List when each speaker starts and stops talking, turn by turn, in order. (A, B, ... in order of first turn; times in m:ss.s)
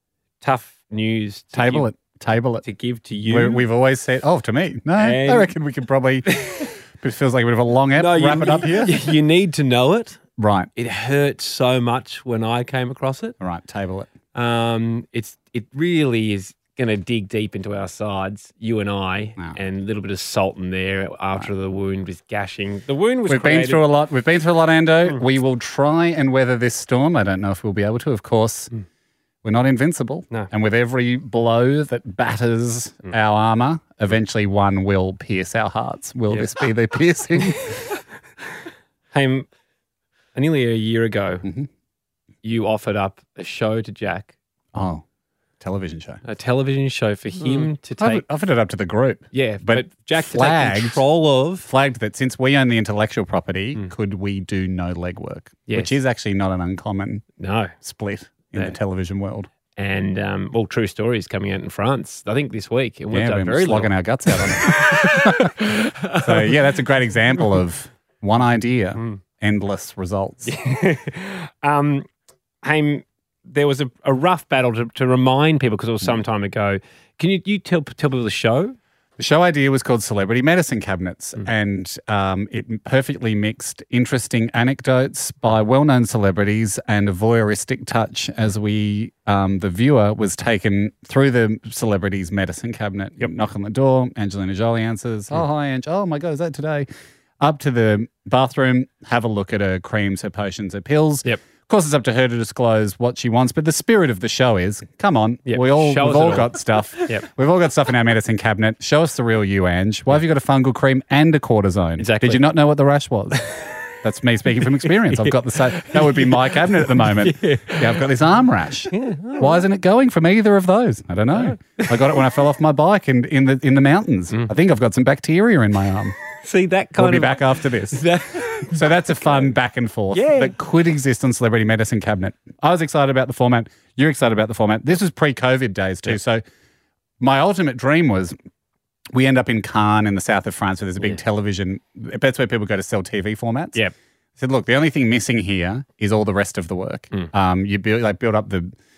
0:00.4-0:01.9 A
0:01.5-0:02.6 B
0:02.6-0:03.6 A
0:03.3-0:09.1 B
0:05.0-0:05.5 A
0:06.3-0:06.7 A
0:08.0-0:10.2 A
0:10.4-0:10.7 B
0:10.8-0:13.3 A
0:13.4-0:14.1 B
0:14.3-0:23.8 A
0:23.3-0:28.7 B
0:29.4-0:37.8 B
0:36.3-0:36.6 A
0:39.1-0:39.5 A
0:40.3-0:41.4 A
0:42.4-0:44.3 A
0:44.7-0:45.0 B
0:45.6-0:46.2 B
0:46.2-0:48.2 A
0:48.0-0:51.0 B
0:49.3-0:51.7 A
0:51.6-0:57.2 B
0:55.7-0:55.9 A
0:57.4-0:57.7 A
0:57.8-0:59.5 B
0:59.8-1:06.6 A
1:03.1-1:10.5 B
1:10.4-1:12.1 A
1:12.6-1:18.8 A
1:19.2-1:36.9 B
1:37.4-1:53.4 B
1:45.4-1:47.3 A
1:52.0-1:52.4 A
1:54.0-2:06.2 B
1:54.8-1:58.0 A
1:58.9-1:59.6 A
2:01.3-2:02.2 A
2:06.4-2:09.5 A
2:07.0-2:08.0 B
2:08.6-2:16.4 B
2:10.1-2:10.5 A
2:17.2-2:18.3 B
2:19.1-2:23.8 B
2:24.4-2:28.8 B